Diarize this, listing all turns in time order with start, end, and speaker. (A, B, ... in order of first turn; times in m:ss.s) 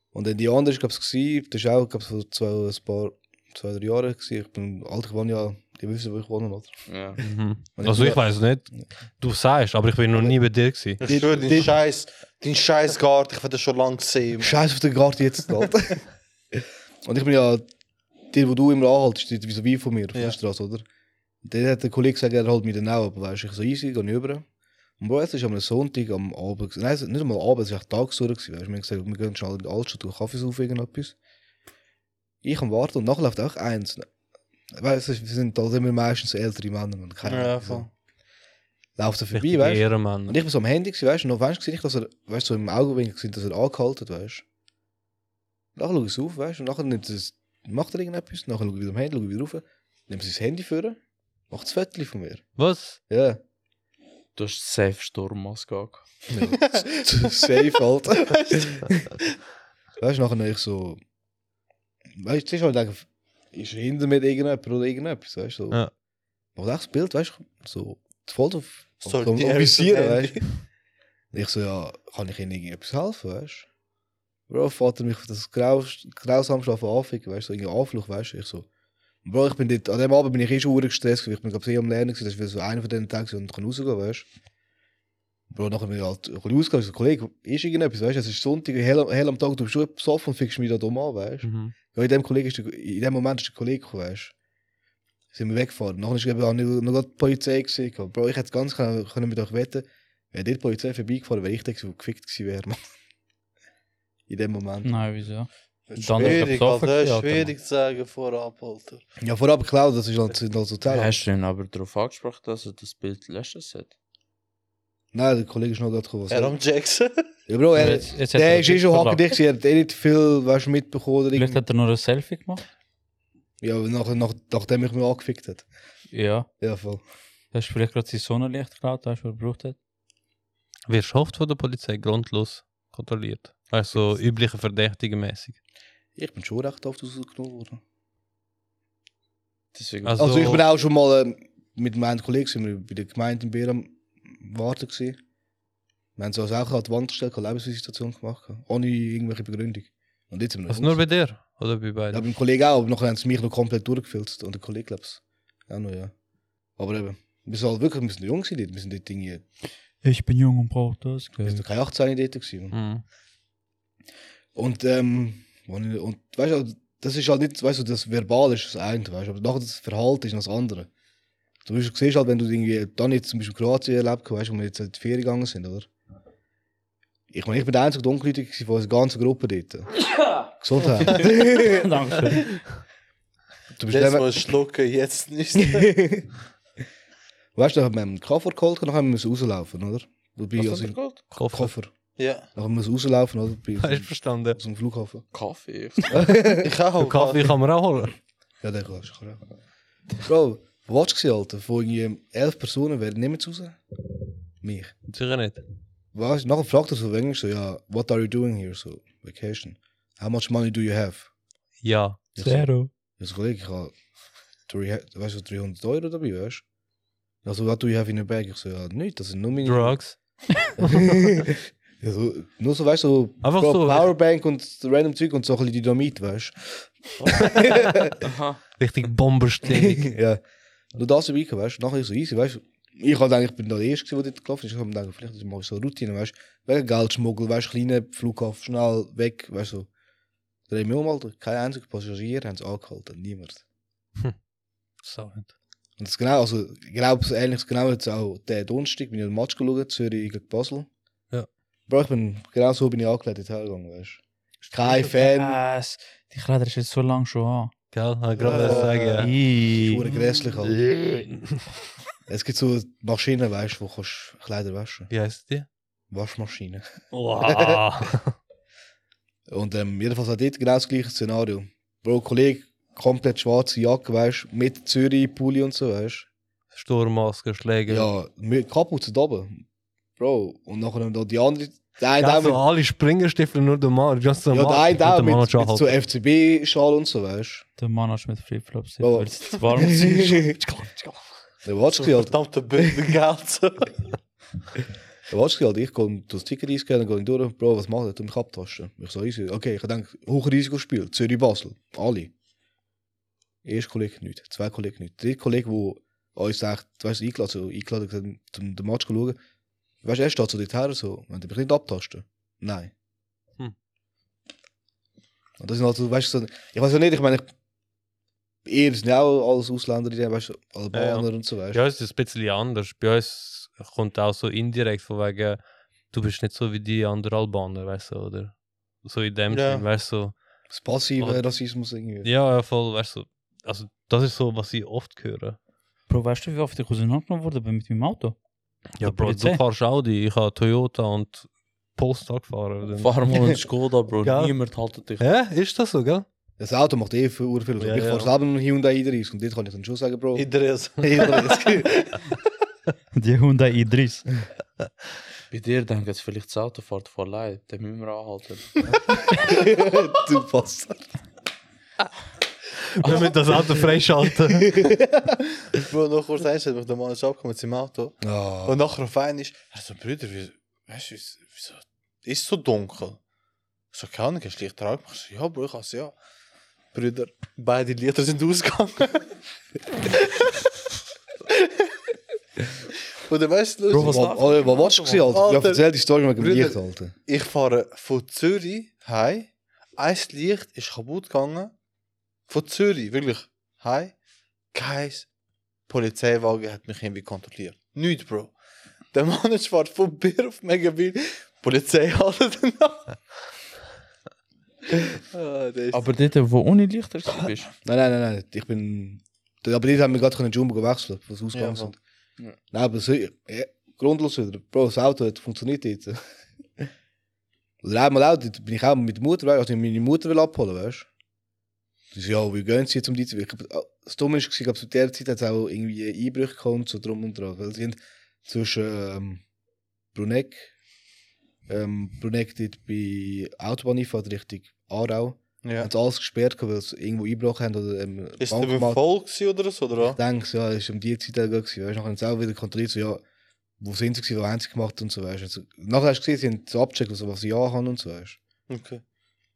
0:00.1-0:06.8 A
0:06.9-0:07.2 B
0:07.2-0:11.6 C
0:07.8-0:08.8 A
0:11.0-0:11.7 A
0:11.0-0:14.6 D
0:14.4-0:16.0 A
0:16.5-0:17.6 A
0:18.3-0:20.8 A
0:21.4-0:24.4 A
0:25.0-0:31.1 A
0:32.4-0:34.1 A
0:34.7-0:37.9 A
0:37.2-0:37.9 D
0:39.0-0:44.4 A
0:39.3-0:40.4 C
0:45.8-0:52.5 A
0:52.6-0:53.0 C
0:53.1-0:53.4 A
0:54.4-0:56.1 B
0:56.3-0:58.9 A
0:56.5-0:57.6 D
0:58.3-0:58.8 D
1:00.0-1:01.0 A
1:02.2-1:05.8 A
1:06.5-1:10.5 A
1:09.0-1:10.5 D
1:11.3-1:13.7 A
1:14.5-1:18.6 A
1:19.2-1:24.3 A
1:25.5-1:34.3 A
1:31.4-1:31.7 C
1:35.3-1:42.8 A
1:44.3-1:45.1 A
1:44.8-1:47.5 E
1:45.9-1:46.5 A
1:46.2-1:49.0 D
1:49.2-1:51.3 A
1:50.9-1:53.9 B
1:55.1-1:56.6 A
1:56.3-1:57.2 D
1:57.5-2:01.6 A
1:57.7-1:59.4 E
2:01.3-2:02.6 E
2:03.6-2:05.6 A
2:06.1-2:06.5 E
2:06.6-2:07.0 A
2:07.5-2:09.8 E
2:10.9-2:15.6 C
2:16.2-2:17.8 A
2:19.7-2:20.6 B
2:20.0-2:20.6 C
2:20.2-2:25.2 A
2:26.2-2:31.0 A
2:30.7-2:32.2 C
2:32.1-2:36.1 A
2:36.8-2:39.4 A
2:40.0-2:41.6 E
2:41.4-2:42.8 A
2:42.7-2:43.0 C
2:44.6-2:50.9 A
2:51.6-2:55.9 A
2:57.3-3:01.9 A
3:01.1-3:02.8 E
3:03.7-3:04.4 A
3:03.9-3:06.0 D
3:05.8-3:06.3 A
3:07.5-3:11.9 A
3:10.6-3:11.2 B
3:11.3-3:11.7 C
3:12.2-3:12.5 D
3:12.5-3:15.2 A
3:13.8-3:14.6 C
3:15.3-3:16.3 B
3:16.1-3:16.6 A
3:16.5-3:17.5 D
3:17.0-3:18.2 C
3:18.6-3:19.4 A
3:20.2-3:23.8 A
3:24.6-3:24.9 A
3:25.1-3:25.6 C
3:26.1-3:31.3 A
3:31.8-3:32.2 C
3:32.4-3:33.9 A
3:32.4-3:32.9 E
3:34.7-3:36.6 A
3:37.4-3:40.0 A
3:39.6-3:40.2 C
3:40.8-3:41.3 C
3:40.8-3:48.1 A
3:43.4-3:44.1 C
3:47.4-3:48.0 C
3:48.2-3:48.6 B
3:48.8-3:50.1 C
3:49.7-3:50.4 A
3:50.9-3:59.9 A
4:00.7-4:03.6 A
4:05.0-4:05.5 C
4:06.0-4:10.9 A
4:11.9-4:15.6 A
4:14.9-4:17.7 E
4:17.9-4:19.3 C
4:18.4-4:19.2 D
4:18.4-4:21.3 E
4:18.6-4:19.0 A
4:19.6-4:20.8 A
4:22.3-4:25.1 A
4:25.1-4:25.7 C
4:26.1-4:26.8 A
4:27.1-4:28.3 C
4:27.4-4:27.8 A
4:29.5-4:36.3 A
4:36.7-4:38.1 C
4:37.9-4:39.6 A
4:40.2-4:42.6 A
4:42.2-4:46.0 C
4:44.5-4:47.6 A
4:47.8-4:50.9 E
4:49.0-4:50.5 A
4:50.9-4:51.1 C
4:51.6-4:52.3 A
4:51.9-4:54.0 D
4:55.3-5:02.3 A
5:03.6-5:09.4 A
5:10.0-5:12.9 A
5:15.6-5:17.5 A
5:18.6-5:21.8 A
5:20.9-5:25.6 C
5:26.1-5:30.4 C
5:29.5-5:29.8 D
5:30.7-5:32.3 A
5:31.2-5:31.4 C
5:32.2-5:35.6 C
5:36.1-5:38.4 E
5:39.0-5:43.2 C
5:39.0-5:39.6 E
5:43.0-5:45.3 B
5:44.2-5:44.6 C
5:45.2-5:46.2 C
5:46.6-5:51.9 A
5:47.8-5:48.3 C
5:50.3-5:52.2 D
5:53.1-5:54.3 E
5:55.5-5:58.8 B
5:59.3-6:01.1 A
6:03.0-6:04.9 C
6:04.7-6:05.3 A
6:05.8-6:13.2 D
6:08.2-6:08.8 A
6:13.9-6:16.1 D
6:16.9-6:19.3 D
6:21.5-6:21.9 D
6:23.2-6:24.5 D
6:23.9-6:25.3 B
6:23.9-6:27.2 A
6:25.2-6:25.8 D
6:26.4-6:31.7 D
6:32.5-6:34.1 D
6:34.7-6:35.3 D
6:35.9-6:38.5 D
6:39.1-6:43.2 D
6:44.9-6:46.0 D
6:45.9-6:47.7 B
6:47.8-6:52.0 A
6:51.5-6:51.9 D
6:52.7-6:56.2 A
6:57.8-7:01.1 A
7:02.1-7:09.4 A
7:10.1-7:10.7 A
7:11.7-7:19.0 A
7:15.6-7:15.9 D
7:18.4-7:20.2 D
7:20.1-7:23.2 A
7:23.8-7:28.4 A
7:28.7-7:29.0 D